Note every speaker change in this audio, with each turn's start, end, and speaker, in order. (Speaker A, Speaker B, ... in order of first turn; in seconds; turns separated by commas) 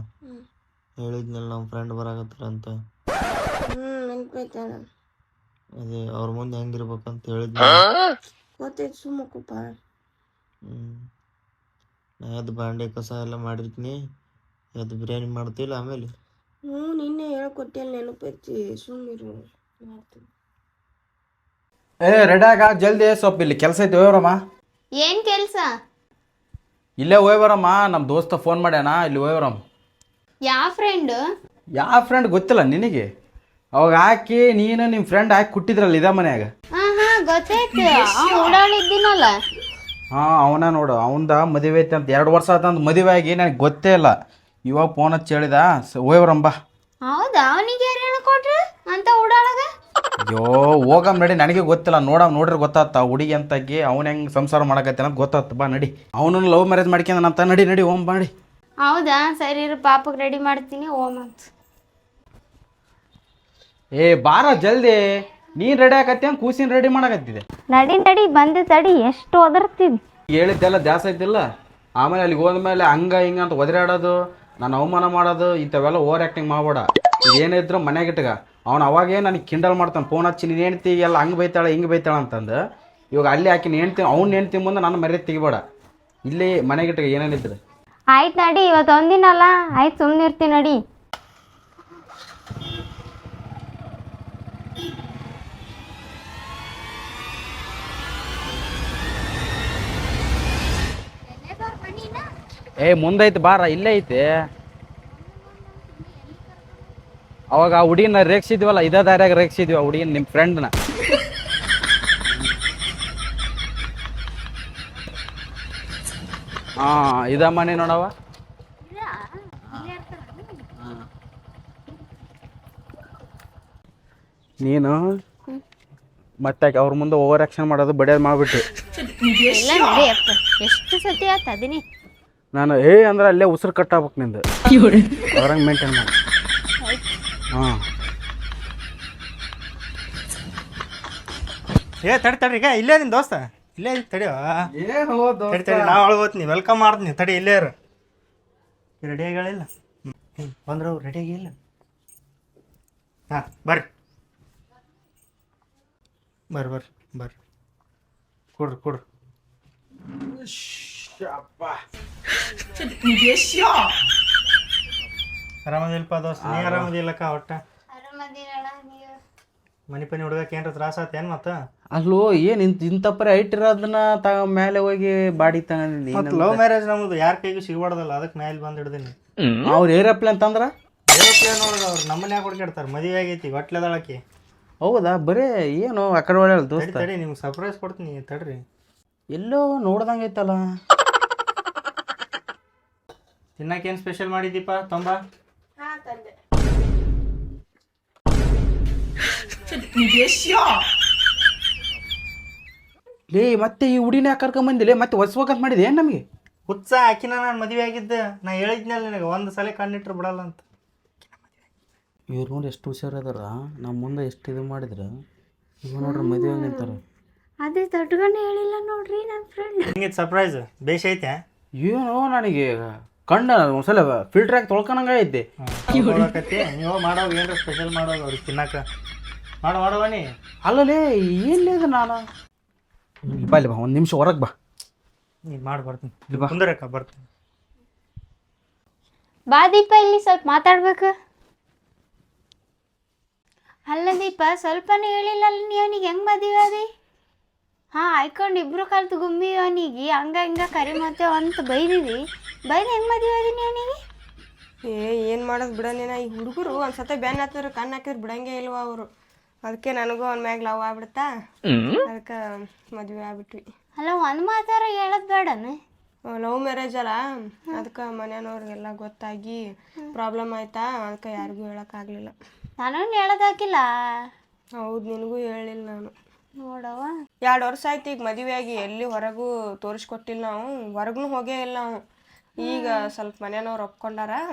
Speaker A: 1.0-2.7, Speaker B: 3.7-4.8, Speaker A: 5.8-7.8, Speaker B: 8.6-9.7, Speaker A: 10.7-11.1, Speaker A: 12.2-14.0, Speaker A: 14.8-16.1, Speaker B: 16.7-20.2, Speaker C: 22.0-24.4, Speaker D: 25.0-25.7, Speaker C: 27.0-29.6, Speaker D: 30.5-31.2, Speaker C: 31.8-33.0, Speaker C: 33.8-36.5, Speaker D: 36.8-39.4, Speaker C: 40.1-44.1, Speaker C: 44.7-46.5, Speaker D: 47.0-49.6, Speaker C: 50.2-58.3, Speaker D: 58.8-61.5, Speaker C: 64.0-65.0, Speaker C: 65.5-67.4, Speaker D: 67.7-69.9, Speaker C: 70.3-71.4, Speaker C: 72.0-82.6, Speaker C: 83.1-85.6, Speaker C: 86.3-87.6, Speaker D: 88.1-90.8, Speaker D: 101.3-102.2, Speaker C: 102.8-104.3, Speaker D: 105.2-106.6, Speaker C: 107.5-110.7, Speaker C: 112.3-112.6, Speaker C: 116.8-118.1, Speaker D: 118.8-120.7, Speaker C: 120.8-121.0, Speaker C: 124.6-125.0, Speaker C: 126.4-128.7, Speaker D: 129.4-131.8, Speaker C: 132.5-134.4, Speaker C: 135.2-136.1, Speaker D: 136.8-137.1, Speaker E: 142.0-144.7, Speaker C: 144.7-146.0, Speaker E: 145.5-147.7, Speaker E: 149.0-149.7, Speaker E: 150.4-151.5, Speaker E: 153.3-153.9, Speaker E: 156.5-157.3, Speaker E: 158.6-159.0, Speaker C: 160.3-161.8, Speaker E: 165.7-167.6, Speaker C: 166.4-166.9, Speaker D: 167.9-169.2, Speaker E: 169.9-171.6, Speaker C: 171.9-176.6, Speaker E: 176.1-179.2, Speaker C: 179.6-180.7, Speaker E: 181.1-184.2, Speaker C: 184.8-187.1, Speaker E: 186.8-188.6, Speaker C: 189.3-190.6, Speaker E: 193.6-195.2, Speaker B: 195.8-196.4, Speaker B: 199.4-200.7, Speaker C: 203.3-206.2, Speaker E: 206.7-210.6, Speaker E: 211.2-211.7, Speaker C: 212.3-215.1, Speaker C: 215.9-217.0, Speaker D: 216.0-216.9, Speaker D: 217.6-219.9, Speaker E: 219.9-221.4, Speaker C: 221.8-225.4, Speaker E: 225.6-228.8, Speaker E: 229.6-230.3, Speaker C: 230.6-232.2, Speaker E: 233.3-233.5, Speaker C: 233.4-234.5, Speaker E: 235.5-237.2, Speaker D: 239.5-241.1, Speaker D: 243.9-246.8, Speaker D: 247.9-252.2, Speaker D: 252.7-253.9, Speaker B: 254.9-259.1, Speaker B: 259.6-261.3, Speaker B: 262.1-262.4, Speaker B: 262.9-263.6, Speaker D: 264.0-265.8, Speaker B: 266.3-267.2, Speaker B: 267.8-269.6, Speaker B: 270.1-272.4, Speaker D: 272.8-273.9, Speaker B: 274.8-276.1, Speaker D: 276.6-277.1, Speaker B: 277.4-282.0, Speaker D: 282.6-283.1, Speaker B: 282.6-284.4